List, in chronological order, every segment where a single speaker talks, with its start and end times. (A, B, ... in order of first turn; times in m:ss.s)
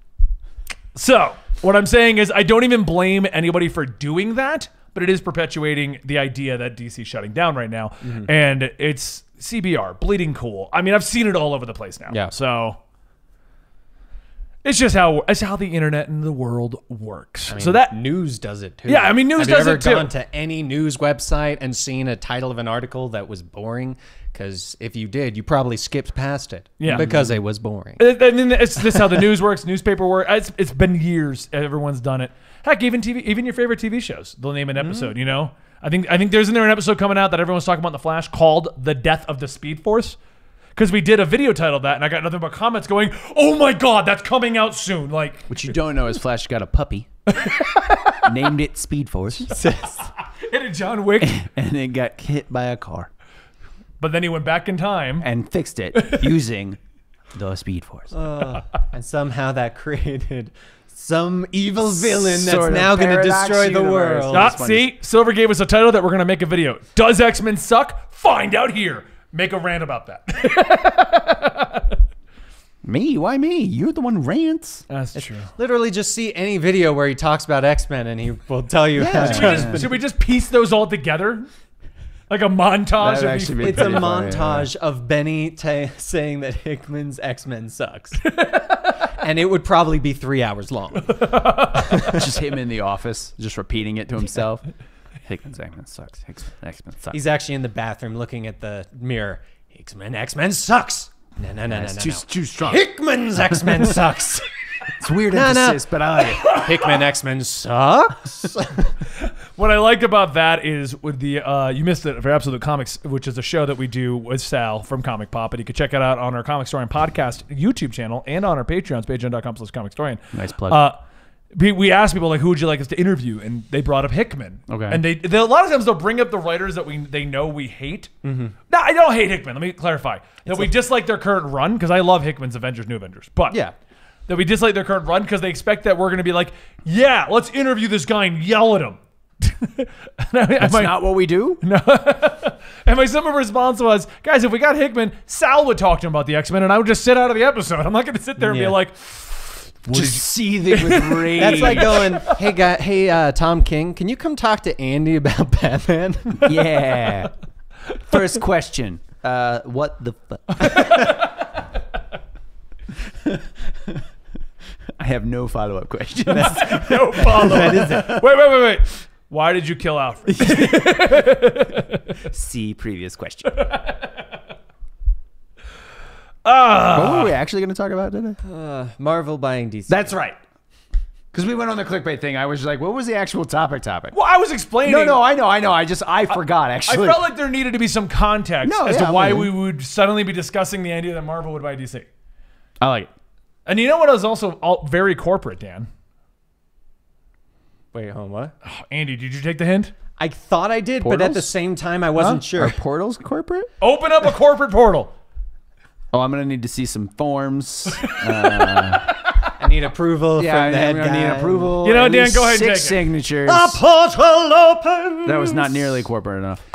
0:01.0-0:12.8 A
0:08.0-0:08.3 B
0:14.6-0:18.0 A
0:17.5-0:28.1 B
0:18.9-0:20.1 A
0:26.8-0:27.1 A
0:26.9-0:27.3 C
0:28.0-0:40.2 A
0:28.9-0:29.2 B
0:34.8-0:35.1 B
0:40.8-0:45.5 A
0:45.5-0:47.1 C
0:47.3-0:48.3 A
0:48.2-0:49.6 C
0:49.5-0:50.1 B
0:50.3-0:51.4 A
0:51.2-0:53.1 C
0:54.0-0:55.3 A
0:55.2-0:56.8 C
0:55.9-0:56.4 A
0:57.3-0:58.2 C
0:58.1-1:04.5 B
1:02.0-1:04.9 C
1:04.3-1:12.0 A
1:12.8-1:14.8 C
1:14.9-1:15.5 A
1:15.2-1:20.0 B
1:19.0-1:19.9 C
1:19.1-1:21.5 A
1:22.3-1:24.2 A
1:23.0-1:24.7 C
1:23.6-1:28.3 B
1:28.2-1:29.0 A
1:29.2-1:32.3 B
1:31.0-1:32.2 A
1:32.0-1:34.6 C
1:35.3-1:37.2 C
1:37.1-1:44.5 B
1:41.7-1:42.8 C
1:43.5-1:43.8 C
1:45.0-1:46.6 C
1:45.0-1:48.9 B
1:46.4-1:46.8 A
1:49.2-2:01.0 A
2:00.3-2:00.8 C
2:01.5-2:08.1 A
2:04.7-2:05.0 C
2:08.2-2:08.6 B
2:08.7-2:13.6 A
2:14.3-2:32.4 A
2:20.6-2:21.6 C
2:28.4-2:28.7 B
2:29.9-2:32.2 C
2:31.4-2:36.6 B
2:36.4-2:37.3 C
2:38.1-2:41.0 C
2:40.6-2:41.3 A
2:43.2-2:44.0 C
2:45.0-2:47.9 C
2:46.3-2:48.2 B
2:46.4-2:52.2 A
2:50.4-2:50.9 C
2:52.2-2:53.7 C
2:53.5-2:54.2 A
2:56.4-2:57.4 A
2:56.9-2:58.4 C
2:58.4-3:00.2 B
2:59.9-3:00.4 C
3:01.3-3:04.1 C
3:04.1-3:05.2 A
3:04.8-3:07.3 C
3:06.3-3:12.1 A
3:08.6-3:09.5 C
3:12.8-3:13.1 C
3:13.7-3:15.9 A
3:17.9-3:18.5 B
3:18.6-3:19.9 A
3:20.2-3:22.8 B
3:21.0-3:21.5 C
3:22.2-3:23.7 C
3:23.8-3:25.1 A
3:26.1-3:29.2 C
3:28.0-3:29.5 A
3:29.6-3:31.8 B
3:30.4-3:33.8 C
3:31.8-3:33.1 A
3:33.4-3:36.0 B
3:35.2-3:36.6 C